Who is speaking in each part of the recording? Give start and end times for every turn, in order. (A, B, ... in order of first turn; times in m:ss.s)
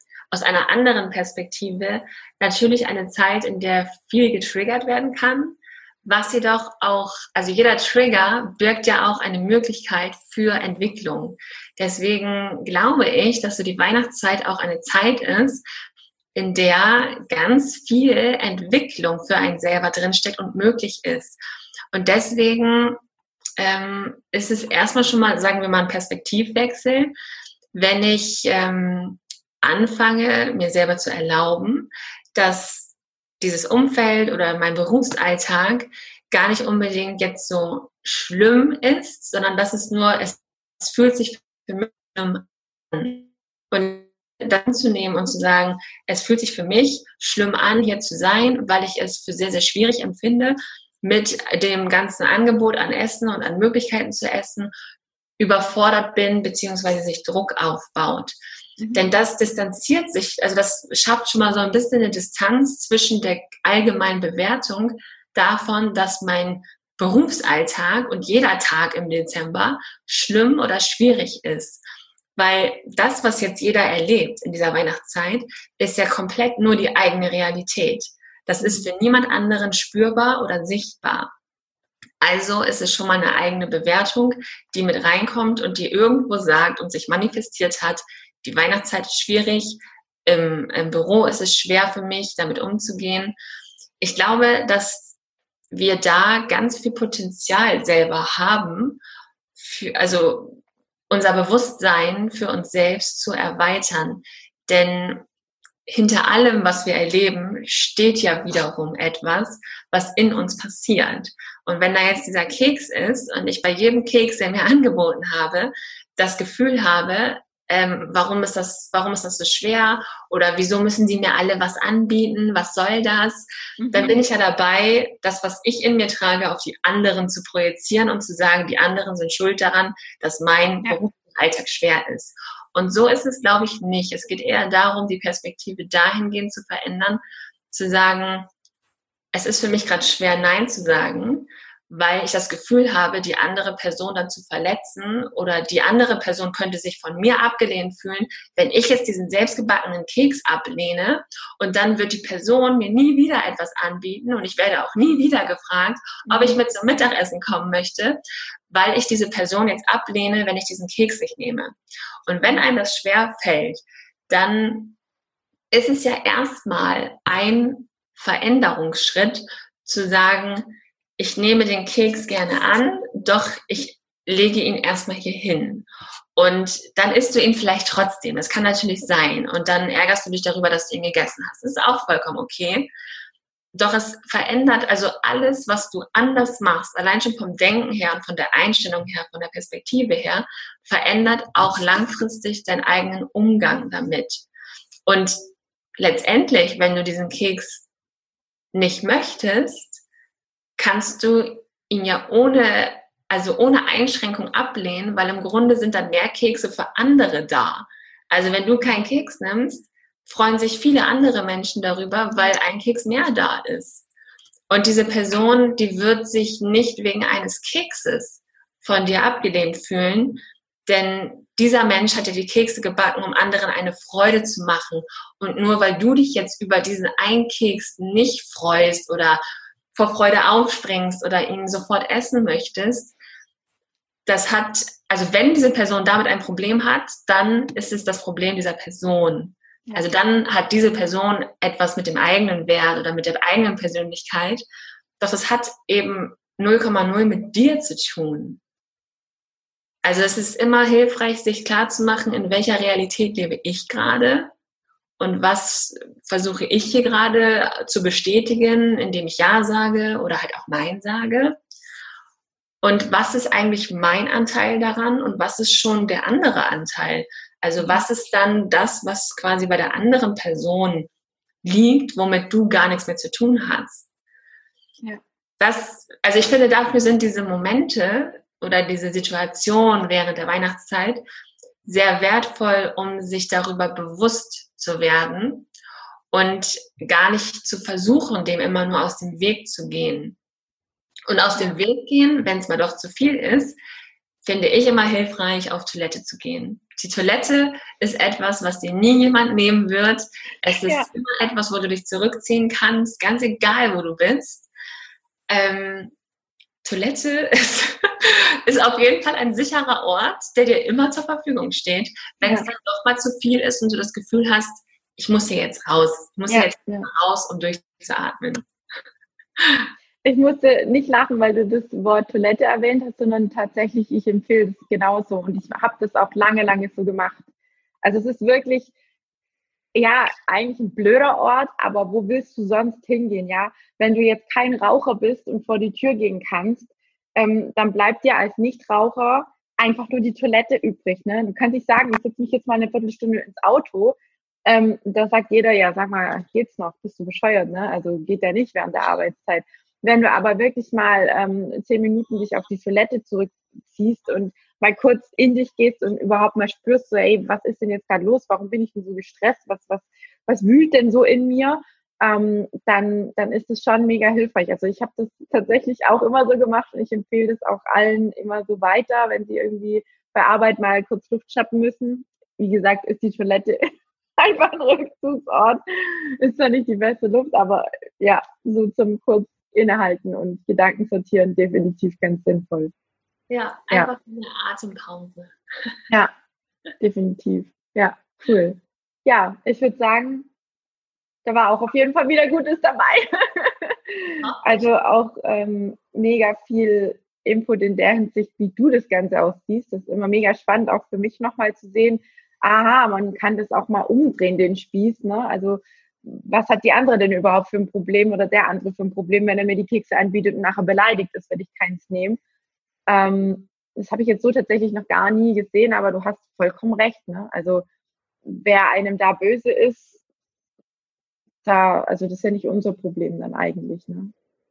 0:00.3-0:15.6 A
0:16.3-0:21.4 A
0:21.9-0:23.0 A
0:23.6-0:27.1 A
0:27.7-0:54.7 A
0:55.4-0:58.4 A
0:58.8-0:59.1 B
0:58.9-1:11.8 A
1:12.4-1:21.3 A
1:18.6-1:18.9 B
1:22.2-1:33.4 A
1:34.0-1:35.2 A
1:35.7-1:39.0 A
1:39.6-1:40.6 A
1:41.1-1:45.2 A
1:45.9-2:18.5 A
2:03.8-2:04.2 B
2:19.3-2:41.7 A
2:36.2-2:36.6 B
2:42.2-2:45.0 A
2:45.7-3:02.9 A
3:03.7-3:14.4 A
3:15.0-3:15.3 A
3:16.0-3:17.9 A
3:18.7-3:20.0 A
3:20.8-3:34.0 A
3:34.7-3:49.4 A
3:49.9-3:53.1 A
3:54.2-4:04.6 A
4:05.2-4:08.6 A
4:10.0-4:14.5 A
4:15.2-4:21.6 A
4:22.8-4:31.1 A
4:27.8-4:28.0 B
4:31.6-4:34.1 A
4:35.6-4:41.2 A
4:41.8-4:45.7 A
4:46.3-4:50.4 A
4:51.3-4:53.8 A
4:54.4-5:04.7 A
5:00.7-5:01.1 B
5:05.5-5:06.1 A
5:06.8-5:18.7 A
5:12.4-5:12.7 B
5:16.5-5:17.1 B
5:19.6-5:19.9 A
5:20.2-5:27.4 B
5:28.0-5:28.9 B
5:29.9-6:13.8 B
6:14.4-6:22.9 B
6:23.5-6:26.1 A
6:27.0-6:30.5 B
6:31.4-6:52.4 B
6:34.4-6:34.9 A
6:53.1-6:57.8 B
6:58.4-7:00.2 B
7:01.6-7:04.3 B